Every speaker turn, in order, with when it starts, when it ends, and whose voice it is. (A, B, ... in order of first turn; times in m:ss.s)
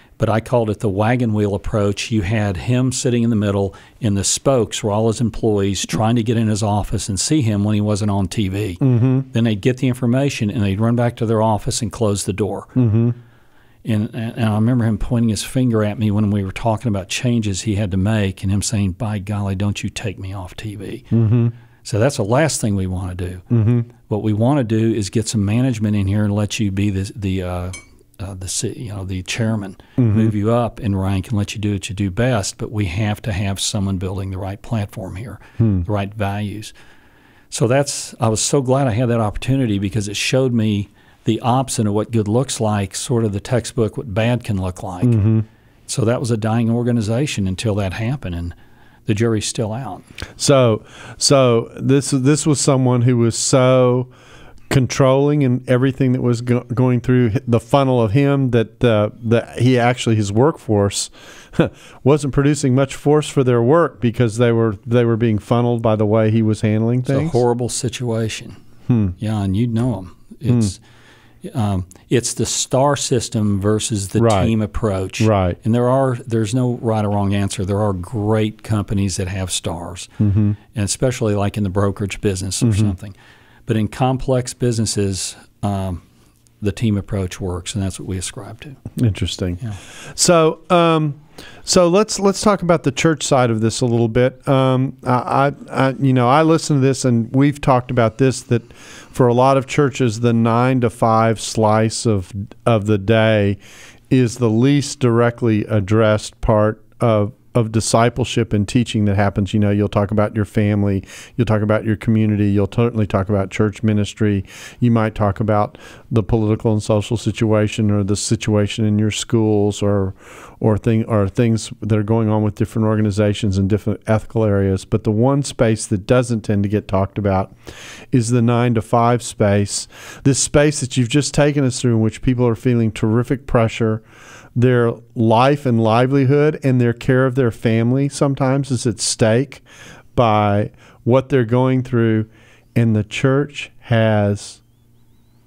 0:00.2-0:12.8 A
0:08.8-0:09.3 B
0:12.8-0:13.2 B
0:13.8-0:21.0 A
0:21.1-0:21.5 B
0:21.8-0:23.4 A
0:23.5-0:23.9 B
0:24.0-0:36.7 A
0:30.0-0:30.3 B
0:35.6-0:35.8 B
0:37.5-0:45.2 A
0:45.0-0:45.4 B
0:45.9-0:48.6 A
0:49.1-0:50.1 A
0:50.4-0:54.1 B
0:54.7-1:07.4 B
1:07.1-1:08.6 A
1:08.9-1:09.2 B
1:09.2-1:10.8 A
1:11.4-1:20.1 A
1:14.2-1:14.5 B
1:15.2-1:15.6 B
1:20.2-1:20.6 B
1:20.7-1:23.2 A
1:22.6-1:23.0 B
1:23.7-1:26.0 A
1:26.6-1:28.8 A
1:29.0-1:43.6 B
1:44.1-2:07.5 B
2:08.1-2:14.0 B
2:14.6-2:19.6 B
2:20.2-2:24.6 B